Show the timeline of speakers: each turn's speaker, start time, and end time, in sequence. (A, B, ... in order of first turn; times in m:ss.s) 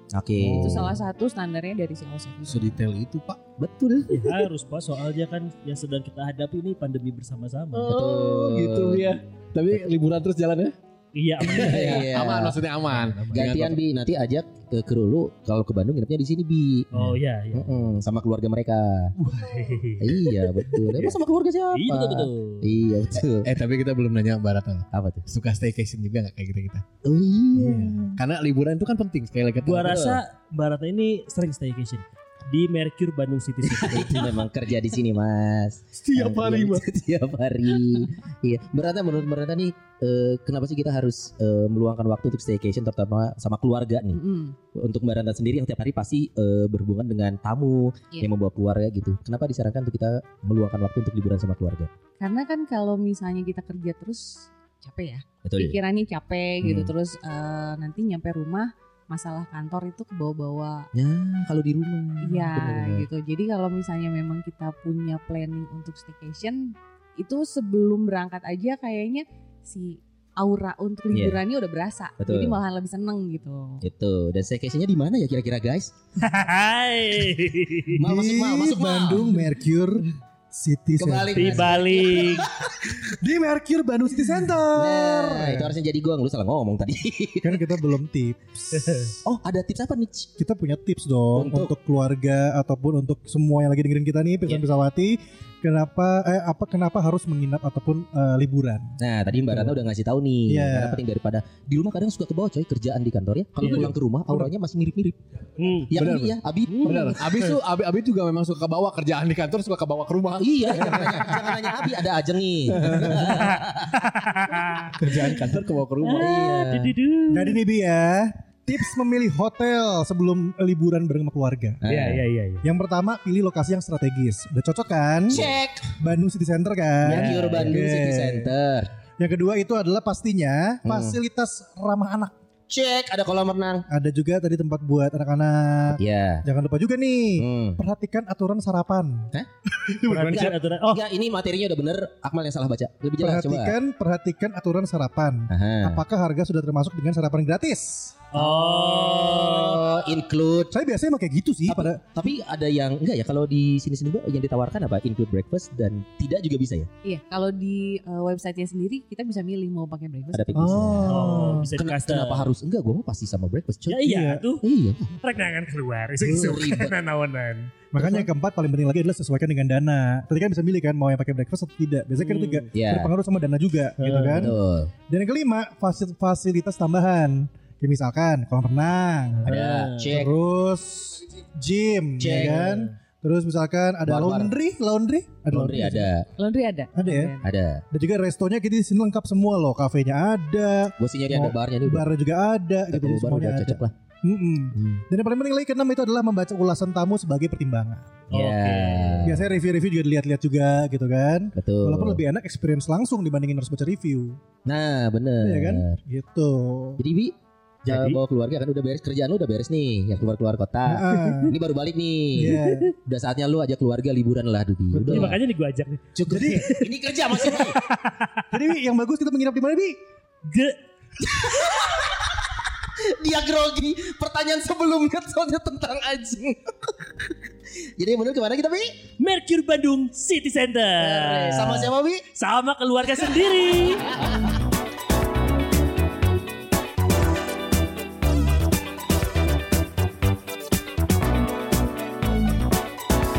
0:00.1-0:01.0 A
0:00.4-0:00.9 B
0:00.6-0:02.8 C
0:02.5-0:03.4 B
0:03.6-0:04.2 A
0:04.1-0:07.9 D
0:07.7-0:10.7 B
0:07.9-0:09.1 A
0:11.1-0:12.1 D
0:11.4-0:13.8 B
0:11.4-0:12.6 A
0:12.8-0:13.5 D
0:13.3-0:16.9 A
0:16.9-0:17.7 D
0:17.5-0:19.2 A
0:19.2-0:19.9 B
0:19.3-0:20.3 D
0:20.0-0:23.5 A
0:21.7-0:22.8 D
0:23.2-0:26.8 B
0:24.9-0:25.2 A
0:27.0-0:28.2 A
0:27.6-0:30.0 B
0:29.6-0:30.2 A
0:29.6-0:34.3 D
0:33.9-0:44.2 A
0:36.0-0:36.9 B
0:44.1-0:44.6 C
0:44.7-0:51.9 A
0:52.2-1:00.9 C
0:55.4-0:55.8 A
0:56.6-0:56.9 A
1:00.9-1:03.1 A
1:02.2-1:13.8 C
1:11.1-1:11.4 A
1:12.2-1:12.6 A
1:13.8-1:15.9 A
1:16.2-1:18.0 D
1:18.0-1:21.7 E
1:18.0-1:19.3 A
1:21.0-1:23.0 A
1:21.4-1:22.5 D
1:23.0-1:25.8 E
1:24.7-1:27.7 A
1:27.4-1:29.2 E
1:29.2-1:30.3 A
1:30.4-1:39.7 E
1:31.4-1:31.7 A
1:39.0-1:45.2 A
1:40.5-1:41.0 E
1:43.6-1:43.9 D
1:43.7-1:44.5 E
1:45.6-1:45.9 D
1:45.9-1:47.2 A
1:45.9-1:51.7 B
1:46.7-1:47.6 D
1:50.4-1:53.9 A
1:52.8-1:53.4 B
1:52.8-1:53.4 E
1:54.0-1:55.4 D
1:54.9-1:56.3 B
1:56.0-1:57.6 D
1:56.2-1:56.9 A
1:57.3-2:01.8 E
2:01.8-2:02.2 A
2:01.9-2:02.7 D
2:02.6-2:08.5 E
2:05.3-2:05.9 A
2:07.0-2:08.9 A
2:07.1-2:07.5 D
2:09.2-2:12.3 E
2:10.8-2:11.2 A
2:12.7-2:13.9 A
2:13.9-2:20.5 E
2:15.9-2:16.4 A
2:17.4-2:17.8 A
2:20.1-2:21.0 D
2:20.2-2:23.8 A
2:23.2-2:28.3 E
2:25.5-2:26.0 A
2:28.3-2:29.9 D
2:28.4-2:30.7 A
2:30.7-2:32.0 E
2:31.7-2:36.9 A
2:37.0-2:40.9 C
2:40.3-2:44.1 A
2:40.6-2:41.7 E
2:41.1-2:42.5 D
2:43.9-2:44.6 D
2:44.0-2:44.4 E
2:44.6-2:45.1 A
2:45.2-2:48.2 D
2:46.2-2:47.0 A
2:47.9-2:54.6 E
2:52.2-2:52.7 D
2:52.7-2:53.1 A
2:54.0-2:54.5 D
2:54.3-2:54.9 A
2:55.1-3:06.1 E
2:59.4-3:00.1 D
2:59.5-3:00.3 A
3:02.2-3:02.8 A
3:04.0-3:04.5 A
3:05.5-3:06.3 A
3:06.4-3:07.5 C
3:06.9-3:07.4 E
3:07.4-3:07.8 A
3:07.9-3:18.2 E
3:11.0-3:12.0 A
3:12.9-3:13.9 A
3:14.7-3:15.0 A
3:18.3-3:19.3 D
3:18.3-3:19.5 A
3:19.2-3:24.4 E
3:21.6-3:22.2 A
3:24.7-3:26.0 A
3:25.4-3:27.0 E
3:27.0-3:27.4 A
3:27.9-3:35.4 A
3:27.9-3:28.2 D
3:30.9-3:31.6 E
3:32.4-3:32.9 E
3:34.9-3:35.4 E
3:35.1-3:38.4 D
3:36.2-3:37.8 A
3:36.3-3:36.7 E
3:38.5-3:40.0 E
3:40.5-3:40.8 D
3:41.2-3:47.3 A
3:48.0-3:49.0 A
3:49.2-3:54.2 D
3:51.0-3:52.2 A
3:54.1-3:54.4 A